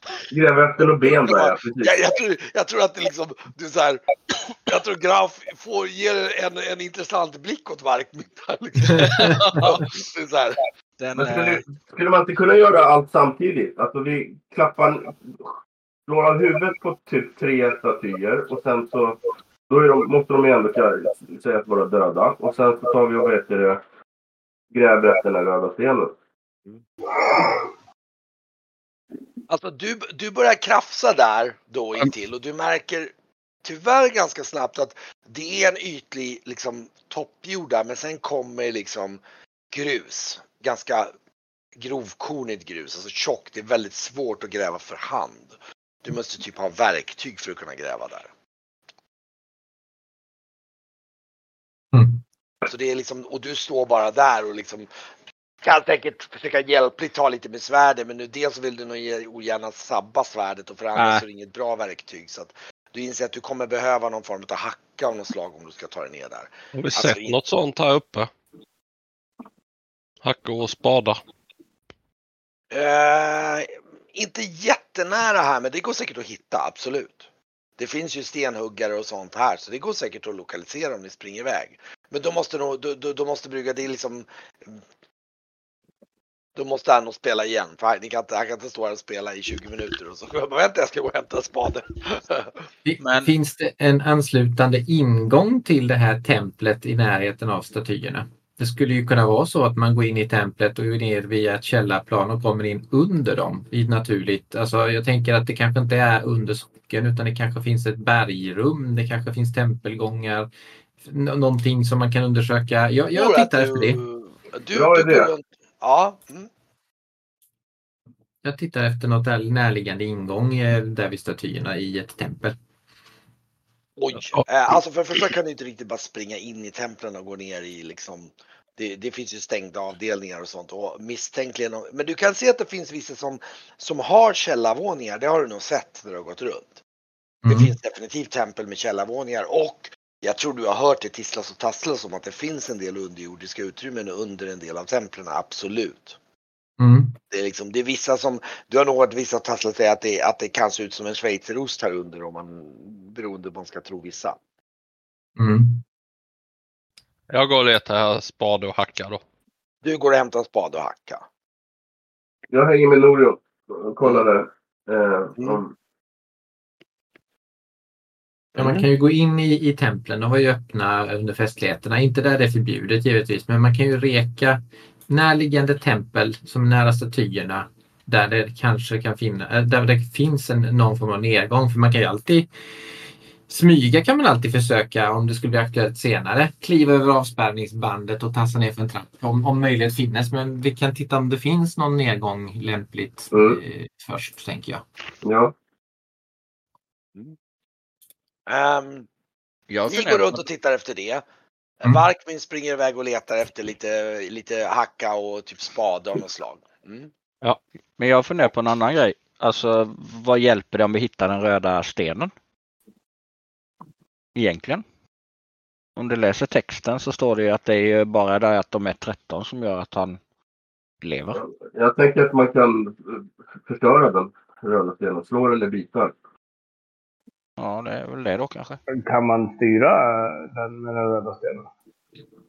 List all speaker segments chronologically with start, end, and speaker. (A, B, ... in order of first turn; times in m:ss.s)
0:00.3-0:01.9 A
0:01.0-0:10.6 B
0:11.0-0:11.6 C
0:11.1-0:15.5 A
0:16.1-0:23.8 A
0:24.7-0:26.1 A
0:29.5-0:33.1 B
0:33.6-0:41.1 B
0:41.8-0:48.3 B
0:51.9-0:52.2 D
0:52.7-0:54.9 B
0:55.6-1:07.4 B
1:01.0-1:01.2 C
1:06.8-1:08.3 E
1:10.2-1:11.2 E
1:12.7-1:17.3 B
1:17.8-1:24.8 B
1:26.6-1:32.6 B
1:32.8-1:50.5 D
1:33.0-1:33.3 C
1:51.0-1:54.0 D
1:53.1-1:56.5 B
1:54.7-1:55.3 A
1:58.4-2:02.6 D
2:04.0-2:16.8 B
2:17.4-2:17.7 D
2:17.5-2:26.2 B
2:26.8-2:27.1 D
2:27.3-2:34.4 B
2:35.4-2:35.8 D
2:37.3-2:39.2 E
2:39.8-2:41.2 B
2:42.5-2:45.7 A
2:48.6-2:48.8 B
2:48.6-3:02.5 D
3:03.5-3:14.8 D
3:13.3-3:13.6 A
3:15.2-3:15.6 A
3:18.5-3:19.1 B
3:19.7-3:20.4 C
3:19.9-3:21.2 B
3:21.8-3:27.1 B
3:28.0-3:32.3 C
3:34.4-3:34.8 C
3:36.0-3:40.2 C
3:41.0-3:41.4 C
3:41.4-3:46.2 A
3:47.6-3:48.8 C
3:48.9-3:51.7 F